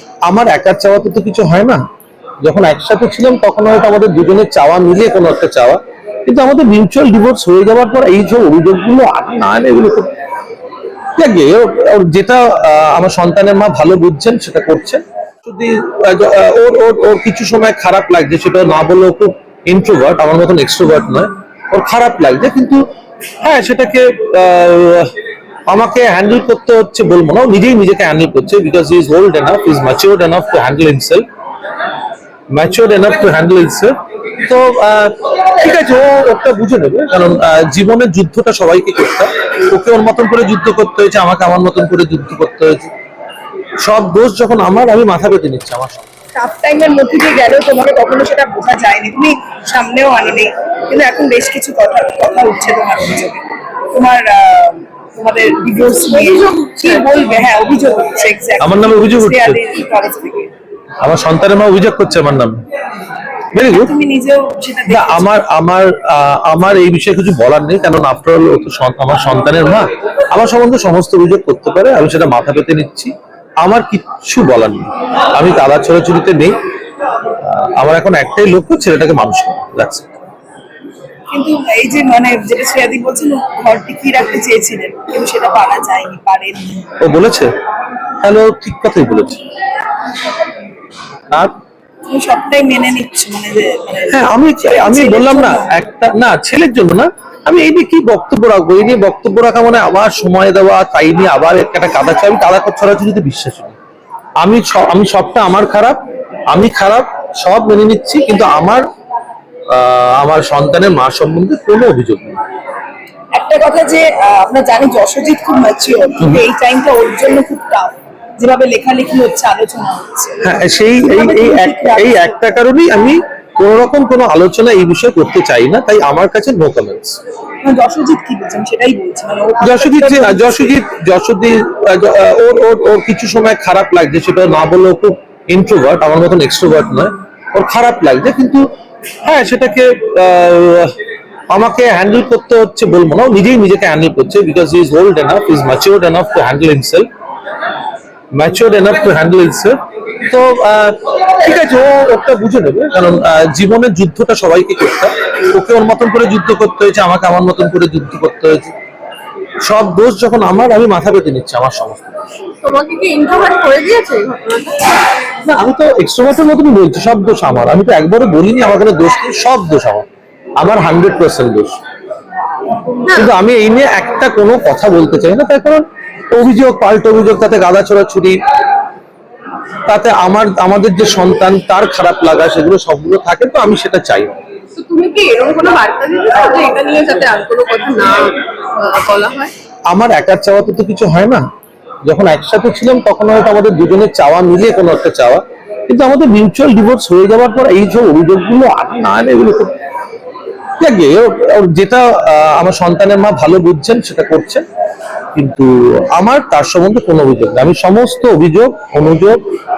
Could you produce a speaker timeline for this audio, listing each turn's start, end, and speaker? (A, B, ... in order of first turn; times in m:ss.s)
0:00.3-0:01.8 A
0:02.4-0:10.1 A
0:11.2-0:22.8 A
0:23.4-0:25.1 A
0:25.7-0:31.2 A
0:32.5-0:33.9 A
0:34.4-0:42.9 A
0:43.8-0:46.1 A
0:46.3-1:00.5 B
0:55.9-0:57.2 C
0:58.6-0:59.6 A
1:01.0-1:02.6 A
1:03.5-1:03.9 A
1:03.6-1:05.3 B
1:04.9-1:13.1 A
1:13.6-1:16.5 A
1:17.4-1:20.2 A
1:21.3-1:26.9 B
1:27.0-1:27.5 A
1:28.2-1:29.4 A
1:32.1-1:35.8 B
1:34.1-1:43.8 A
1:44.4-1:46.0 A
1:46.5-1:48.8 A
1:49.7-1:52.4 A
1:53.3-2:02.4 B
1:56.2-1:56.4 A
2:00.4-2:07.2 A
2:07.6-2:10.8 B
2:09.6-2:18.6 A
2:19.2-2:20.9 A
2:21.5-2:27.1 A
2:28.3-2:38.7 A
2:39.6-2:42.2 A
2:42.6-2:44.9 C
2:45.4-2:50.1 A
2:50.6-2:51.8 A
2:53.0-2:53.3 C
2:53.1-2:58.4 A
2:59.9-3:04.4 A
3:04.8-3:09.5 C
3:09.9-3:11.4 A
3:12.0-3:19.7 A
3:20.8-3:24.6 A
3:25.3-3:29.4 A